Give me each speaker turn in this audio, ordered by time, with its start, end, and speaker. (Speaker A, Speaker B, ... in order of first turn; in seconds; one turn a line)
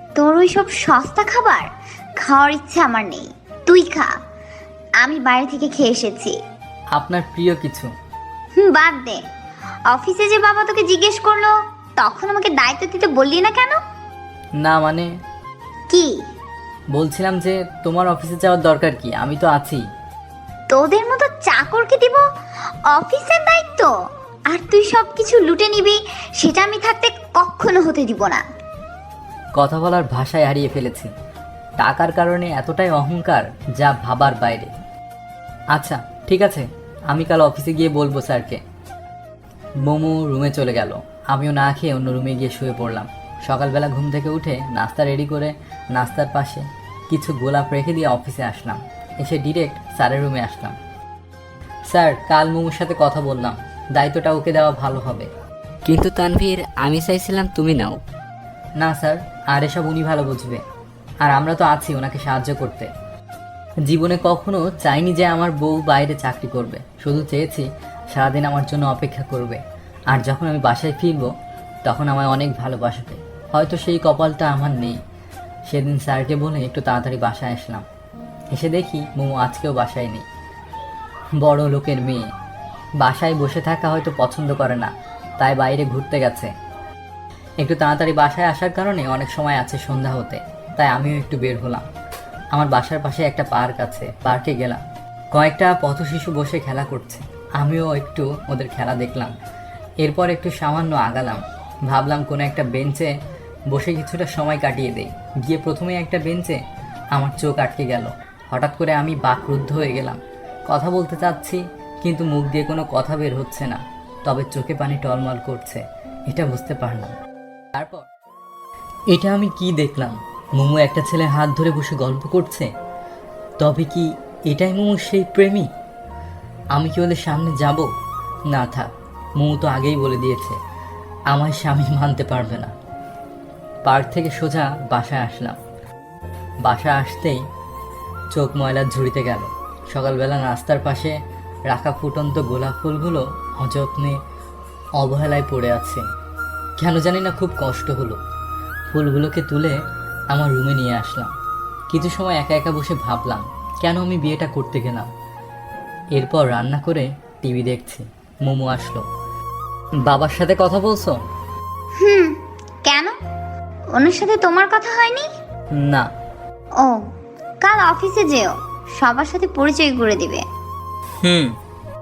Speaker A: 0.1-1.7
Speaker A: 2.2-4.1
Speaker A: 5.0-6.3
Speaker B: 6.9-7.9
Speaker A: 8.6-9.2
Speaker A: 9.9-13.8
Speaker B: 14.6-15.1
Speaker B: 16.9-19.8
Speaker A: 20.7-22.2
Speaker A: 22.9-23.9
Speaker A: 24.5-28.4
Speaker B: 29.6-31.1
Speaker B: 31.8-34.7
Speaker B: 35.7-38.6
Speaker B: 39.8-50.8
Speaker B: 51.9-55.3
Speaker C: 55.9-58.0
Speaker B: 58.8-60.6
Speaker B: 61.2-62.9
Speaker B: 63.9-71.3
Speaker B: 71.8-75.0
Speaker B: 75.7-77.8
Speaker B: 78.5-80.2
Speaker B: 81.4-82.2
Speaker B: 83.0-86.5
Speaker B: 87.6-91.8
Speaker B: 92.5-94.8
Speaker B: 95.3-99.3
Speaker B: 100.0-103.1
Speaker B: 103.7-106.6
Speaker B: 107.1-117.1
Speaker B: 117.8-118.0
Speaker B: 119.1-122.7
Speaker B: 123.6-125.7
Speaker B: 126.7-127.9
Speaker B: 128.5-130.6
Speaker B: 131.3-132.7
Speaker B: 133.8-135.6
Speaker B: 136.7-137.4
Speaker B: 138.3-141.2
Speaker B: 141.7-144.2
Speaker B: 145.0-146.0
Speaker B: 146.8-148.2
Speaker B: 148.9-149.8
Speaker B: 150.3-151.3
Speaker B: 151.9-155.1
Speaker B: 156.2-159.0
Speaker B: 160.1-161.2
Speaker A: 162.0-162.3
Speaker A: 162.8-163.1
Speaker A: 164.0-165.3
Speaker B: 165.8-166.1
Speaker A: 167.6-170.4
Speaker B: 171.2-171.5